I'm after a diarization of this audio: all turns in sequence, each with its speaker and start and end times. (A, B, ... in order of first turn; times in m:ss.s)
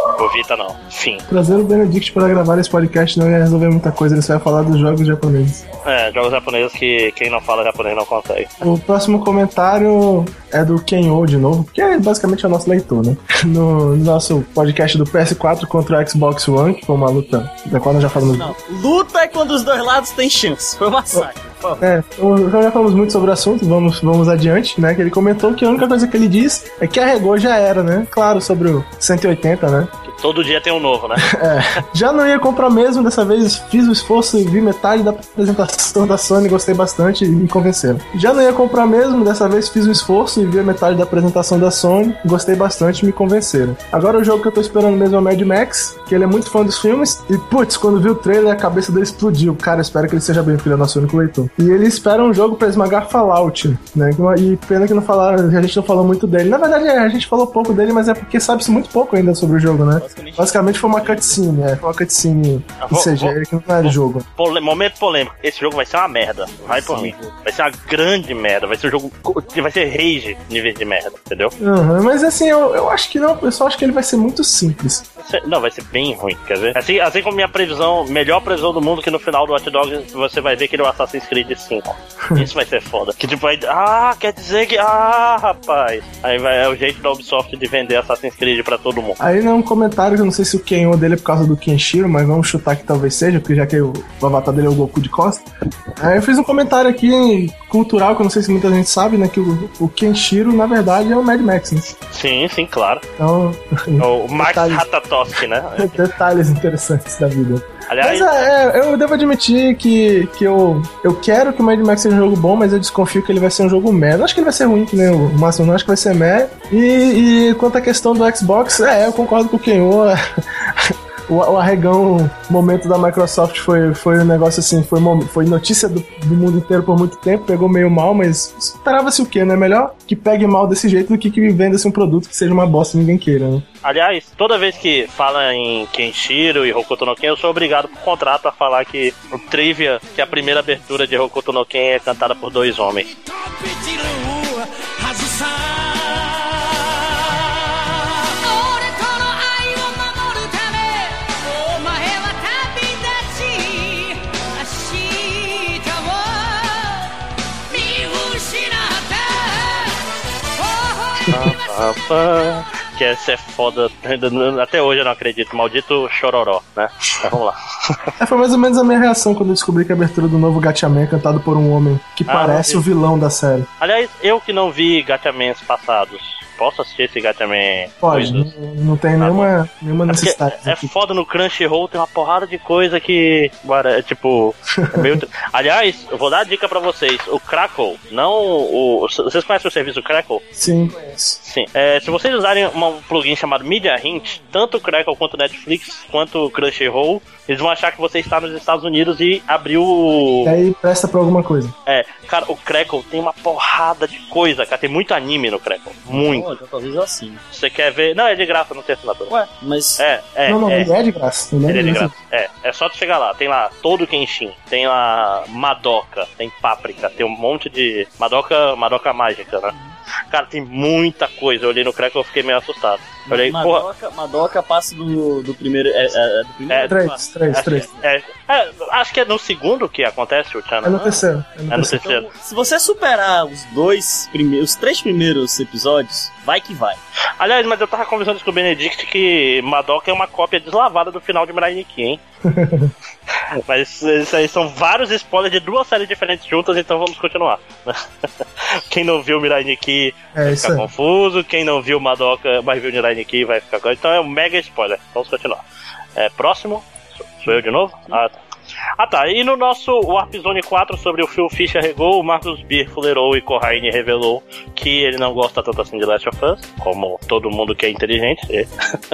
0:00.2-0:01.2 A
0:01.3-0:05.6 B
0:05.8-0:08.6 A
0:08.6-0:18.6 B
0:18.2-0:21.9 C
0:21.8-0:29.9 B
0:30.0-0:31.3 A
0:31.2-1:04.3 B
1:00.0-1:01.4 C
1:02.8-1:11.6 A
1:06.6-1:07.4 C
1:11.6-1:15.0 B
1:15.2-1:29.2 A
1:29.2-1:42.0 B
1:42.1-1:43.0 A
1:43.2-1:44.8 B
1:44.0-1:46.0 A
1:45.8-2:13.6 B
1:47.9-1:48.4 A
2:13.8-2:23.1 A
2:23.2-2:37.0 D
2:37.7-2:39.9 D
2:40.6-2:41.2 D
2:41.3-2:48.1 A
2:48.2-2:53.7 B
2:52.3-2:52.8 A
2:53.8-2:58.5 A
2:58.0-3:00.9 B
2:59.2-2:59.5 A
3:00.1-3:10.4 A
3:04.8-3:05.2 B
3:10.6-3:11.4 B
3:11.4-3:20.6 A
3:20.4-3:21.8 B
3:21.9-3:26.5 A
3:26.1-3:27.4 C
3:27.5-3:29.3 A
3:29.3-3:30.0 C
3:30.0-3:30.9 A
3:30.5-3:32.1 B
3:31.7-3:39.7 A
3:40.3-3:43.9 A
3:43.3-3:47.9 C
3:46.7-3:47.0 A
3:46.8-3:47.9 B
3:47.5-3:52.3 A
3:50.8-3:52.1 B
3:51.8-3:57.0 C
3:57.4-4:02.2 A
4:02.4-4:02.9 B
4:03.3-4:15.6 A
4:10.4-4:10.9 B
4:16.2-4:18.4 A
4:19.0-4:28.7 A